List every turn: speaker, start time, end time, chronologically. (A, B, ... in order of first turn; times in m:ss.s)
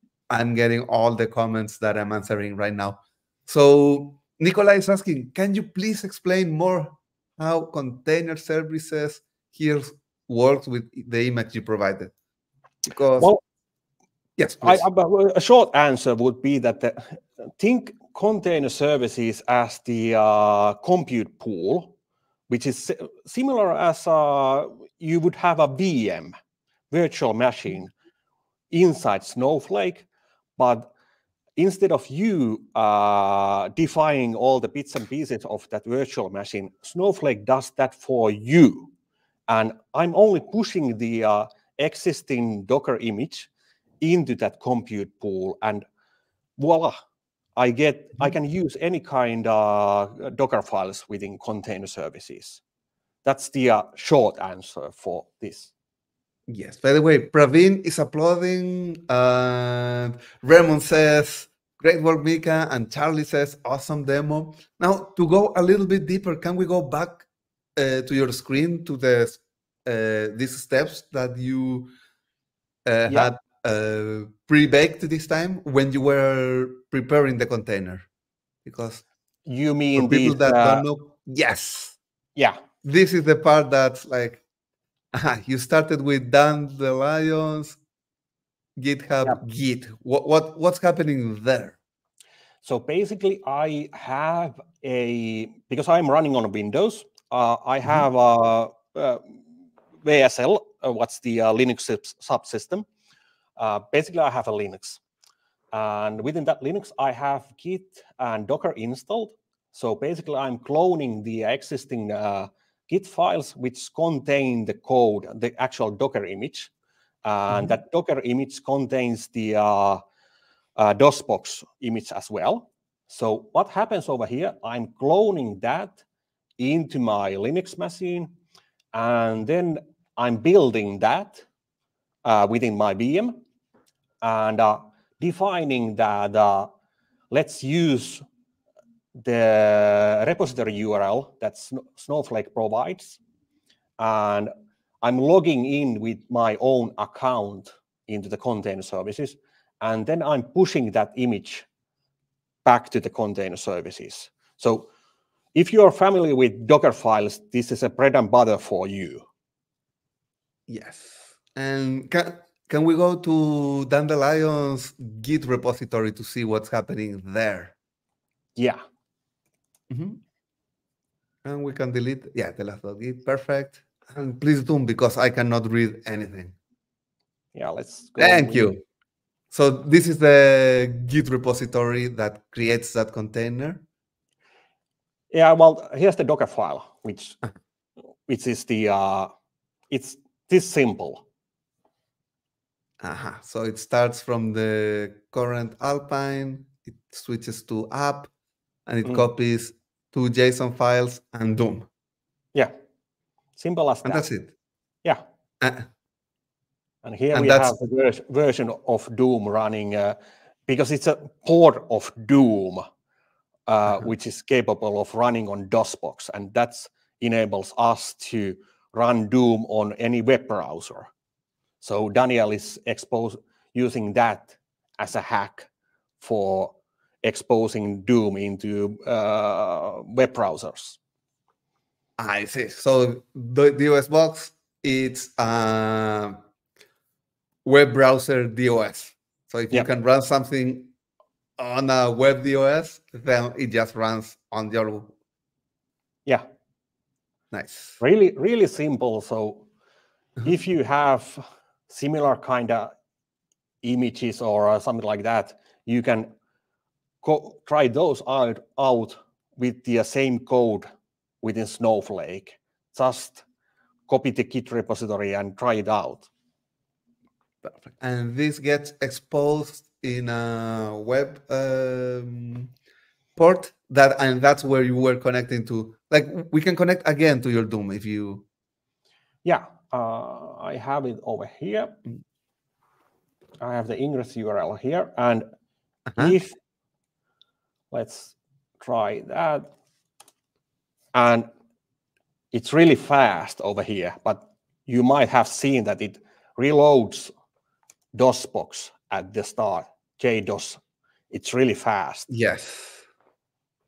0:00.3-0:12.1 A
0:12.8-0:13.3 A
0:14.4-0:14.8 A
0:14.6-0:21.9 B
0:22.5-0:26.4 B
0:26.9-0:27.9 B
0:28.7-0:30.9 B
0:31.6-0:38.9 B
0:39.5-0:43.5 B
0:44.0-0:45.9 B
0:46.6-0:47.0 B
0:47.6-0:52.6 B
0:53.2-0:55.7 B
0:56.5-1:11.9 A
1:12.8-1:18.1 A
1:18.6-1:19.0 A
1:19.5-1:20.8 B
1:20.0-1:22.0 A
1:22.8-1:24.4 A
1:25.1-1:27.8 A
1:28.8-1:31.8 A
1:32.6-1:39.4 B
1:40.0-1:42.9 B
1:43.6-1:45.0 B
1:45.7-1:56.7 B
1:57.2-2:00.0 B
2:00.8-2:06.0 B
2:06.6-2:08.3 B
2:08.9-2:11.4 B
2:12.2-2:13.4 B
2:14.2-2:16.7 B
2:17.3-2:18.2 B
2:19.2-2:23.2 B
2:24.0-2:24.5 B
2:25.0-2:31.7 B
2:32.6-2:34.9 B
2:35.6-2:39.3 B
2:40.7-2:47.7 A
2:48.6-2:48.8 B
2:49.9-2:50.2 A
2:51.4-2:56.6 A
2:57.6-2:58.8 B
2:58.2-2:58.8 A
2:59.5-3:03.8 A
3:05.3-3:07.4 B
3:08.3-3:09.3 B
3:09.9-3:11.2 B
3:13.0-3:18.3 A
3:18.9-3:21.9 A
3:23.6-3:24.2 B
3:24.0-3:24.5 A
3:25.6-3:25.9 A
3:27.0-3:32.9 B
3:27.3-3:27.8 A
3:33.7-3:41.1 B
3:41.8-3:45.7 B
3:46.2-3:51.0 B
3:52.2-3:56.4 A
3:57.6-4:00.9 A
4:01.6-4:05.1 A
4:07.5-4:08.0 A
4:08.0-4:09.7 B
4:10.4-4:12.9 B
4:13.8-4:16.3 B
4:17.2-4:20.9 B
4:21.4-4:23.4 B
4:24.1-4:26.3 B
4:27.6-4:32.7 A
4:33.4-4:38.4 A
4:39.4-4:42.0 B
4:43.6-4:45.5 B
4:46.2-4:46.6 B
4:47.9-4:49.7 B
4:51.1-4:51.5 B
4:52.5-4:57.3 B
4:58.1-5:00.8 B
5:01.3-5:02.3 B
5:02.3-5:03.0 A